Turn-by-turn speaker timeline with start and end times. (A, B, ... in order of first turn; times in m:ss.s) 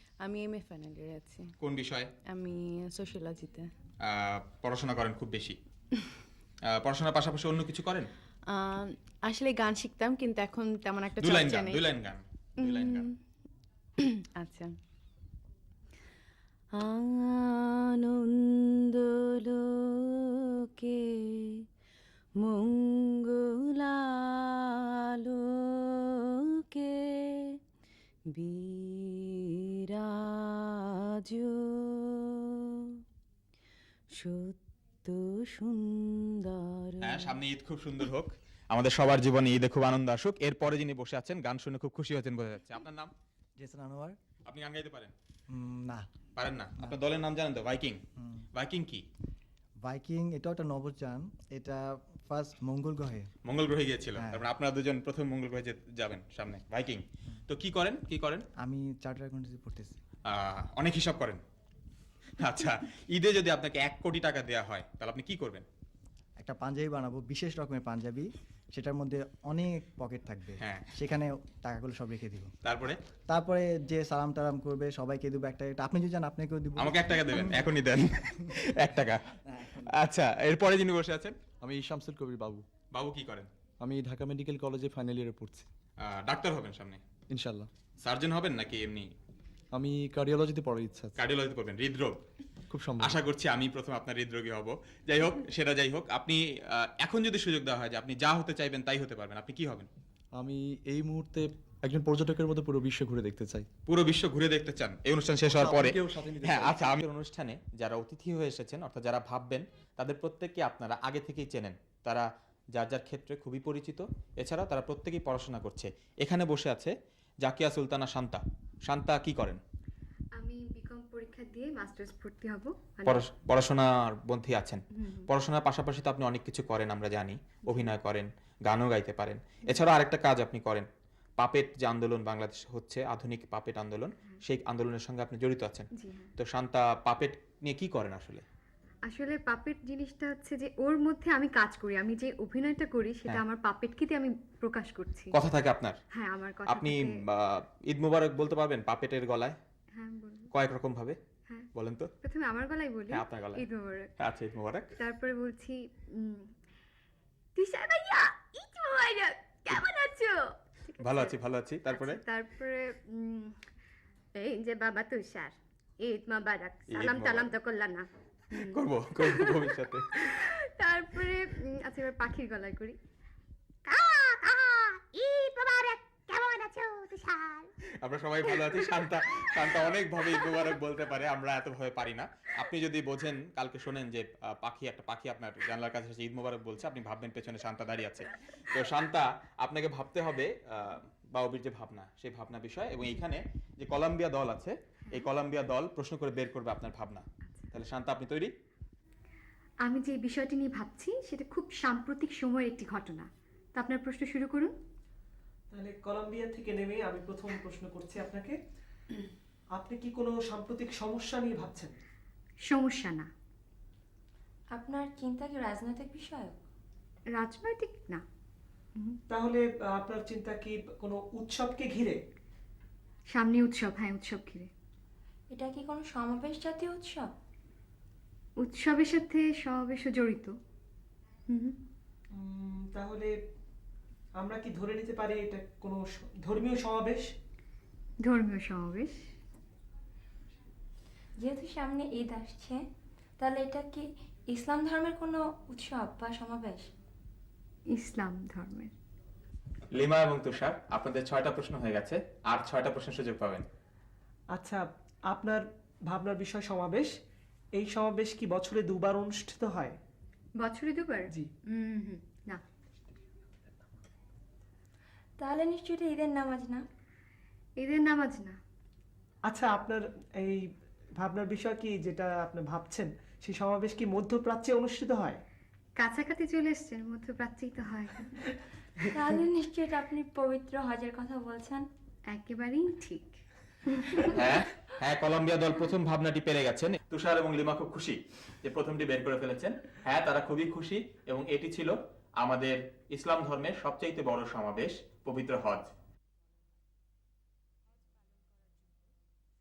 0:00.2-0:01.5 A
0:01.6-0:02.1 B
0:02.3-0:03.7 A
0:04.0-0:05.6 B
0:06.7-0:08.1 B
0:08.5-0:11.8 A
0:11.2-0:13.1 B
0:12.6-0:13.1 A
0:14.0-0:14.7 A
0:16.8-0:19.6 A
0:20.8-0:21.4 A
0:22.4-0:24.7 A
0:25.2-0:26.0 A
0:28.4-0:29.2 A
0:34.2-0:34.5 A
0:37.0-0:43.1 B
0:43.6-0:44.2 C
0:44.5-0:45.1 B
0:45.5-0:46.1 C
0:46.4-0:48.0 B
0:48.2-0:48.5 C
0:48.5-0:49.0 B
0:49.8-0:53.3 C
0:53.5-0:58.4 B
0:54.2-0:54.4 C
0:58.6-1:00.0 C
1:00.3-1:01.4 B
1:02.4-1:05.6 B
1:06.4-1:12.5 C
1:10.6-1:10.9 B
1:12.6-1:13.0 B
1:13.3-1:17.7 C
1:16.8-1:19.3 B
1:19.5-1:19.9 C
1:19.9-1:21.4 B
1:21.6-1:22.6 D
1:22.9-1:23.5 B
1:23.8-1:25.7 D
1:26.0-1:27.0 B
1:27.3-1:27.7 D
1:28.0-1:29.1 B
1:29.8-1:31.2 D
1:31.2-1:32.2 B
1:32.7-1:33.2 D
1:33.0-1:39.9 B
1:40.4-1:43.7 D
1:43.9-1:59.6 B
1:45.5-1:47.0 D
2:00.4-2:03.3 E
2:03.1-2:10.9 B
2:05.0-2:05.3 E
2:11.4-2:18.4 B
2:16.0-2:16.3 E
2:19.1-2:25.3 E
2:25.3-2:26.0 B
2:26.1-2:27.2 E
2:26.7-2:29.6 B
2:29.9-2:30.5 E
2:30.5-2:31.2 B
2:31.8-2:32.1 B
2:32.2-2:34.1 E
2:33.1-2:33.6 B
2:34.2-2:34.9 B
2:35.0-2:36.5 E
2:37.6-2:41.4 E
2:41.0-2:42.2 B
2:41.9-2:43.6 E
2:44.4-2:49.7 E
2:46.9-2:47.5 B
2:48.6-2:50.4 B
2:50.2-2:53.0 E
2:53.9-2:57.7 E
2:58.0-3:18.5 B
2:58.5-2:59.5 E
3:00.2-3:00.5 E
3:19.8-3:24.7 E
3:25.7-3:28.6 F
3:29.8-3:32.0 F
3:32.6-3:33.3 E
3:34.8-3:36.6 G
3:37.3-3:38.2 E
3:39.3-3:42.2 F
3:43.3-3:44.7 E
3:45.5-3:47.3 G
3:48.6-3:50.6 E
3:51.5-3:51.8 E
3:52.4-3:53.3 F
3:54.4-3:57.3 F
3:58.2-3:59.2 E
4:01.4-4:02.8 G
4:03.4-4:06.9 G
4:07.9-4:08.9 E
4:09.9-4:13.6 B
4:14.5-4:17.1 F
4:17.8-4:20.0 F
4:20.6-4:22.6 E
4:25.4-4:26.8 G
4:27.8-4:28.6 E
4:29.5-4:30.6 F
4:31.2-4:35.4 F
4:36.0-4:38.3 E
4:39.1-4:41.9 G
4:42.3-4:43.4 E
4:44.1-4:44.4 E
4:44.3-4:55.9 B